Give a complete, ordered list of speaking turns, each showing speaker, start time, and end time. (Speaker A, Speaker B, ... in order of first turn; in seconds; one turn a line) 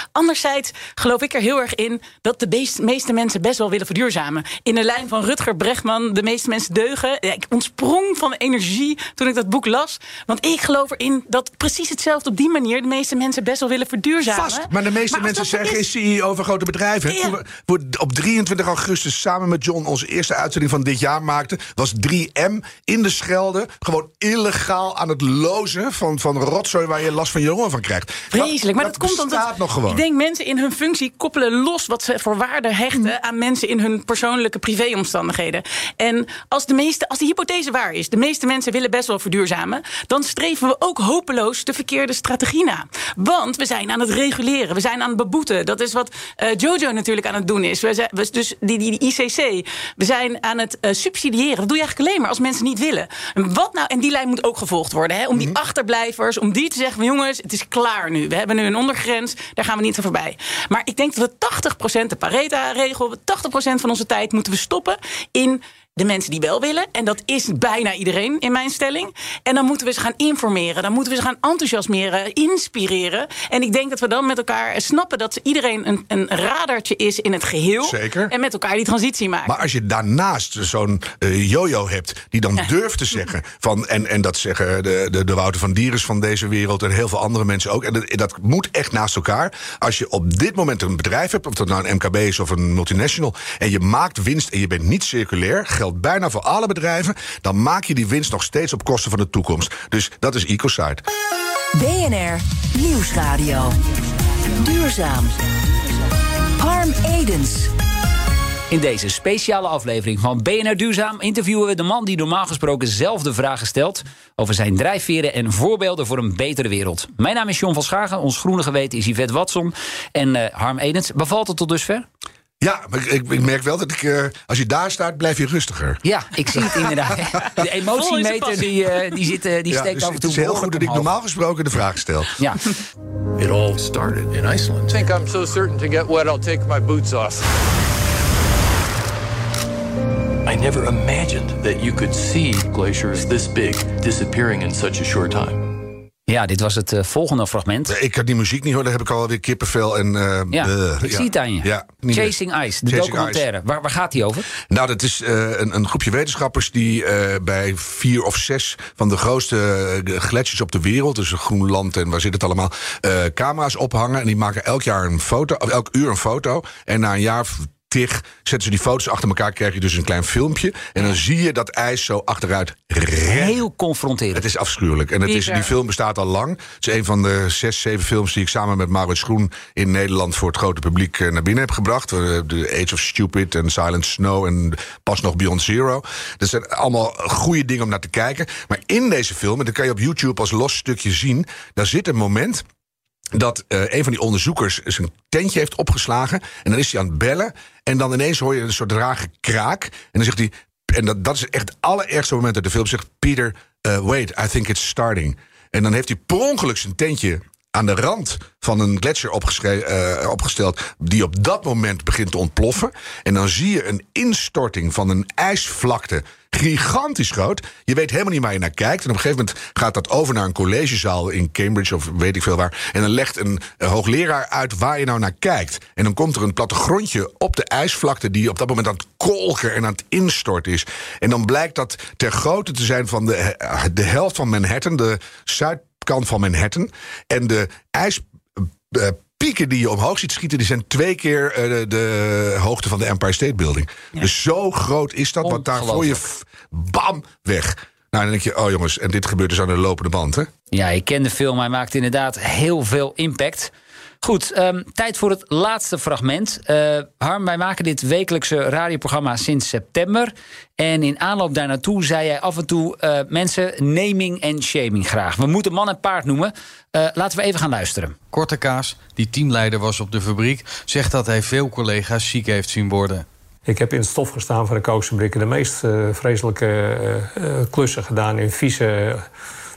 Speaker A: 0.1-15.8
Speaker B: 14.3-30.0
Speaker A: 17.1-17.4
Speaker A: 28.3-79.5
Speaker B: 77.8-78.3
Speaker B: 79.5-101.0
Speaker C: 101.8-103.8
Speaker C: 104.6-105.4
Speaker C: 106.6-107.7
Speaker D: 108.7-122.1
Speaker B: 122.6-126.0
Speaker D: 126.0-131.1
Speaker A: 127.9-128.7
Speaker B: 129.7-132.3
Speaker E: 133.4-135.0
Speaker F: 134.9-137.4
Speaker E: 140.4-145.7
Speaker D: 146.3-147.9
Speaker B: 147.9-153.5
Speaker D: 150.5-154.5
Speaker B: 154.7-173.6
Speaker D: 173.2-174.4
Speaker B: 174.3-192.7
Speaker A: 175.3-175.7
Speaker B: 193.3-250.5
Speaker D: 245.4-246.2
Speaker D: 250.7-253.7
Speaker D: 254.2-268.2
Speaker G: 268.3-273.2
Speaker H: 273.7-279.3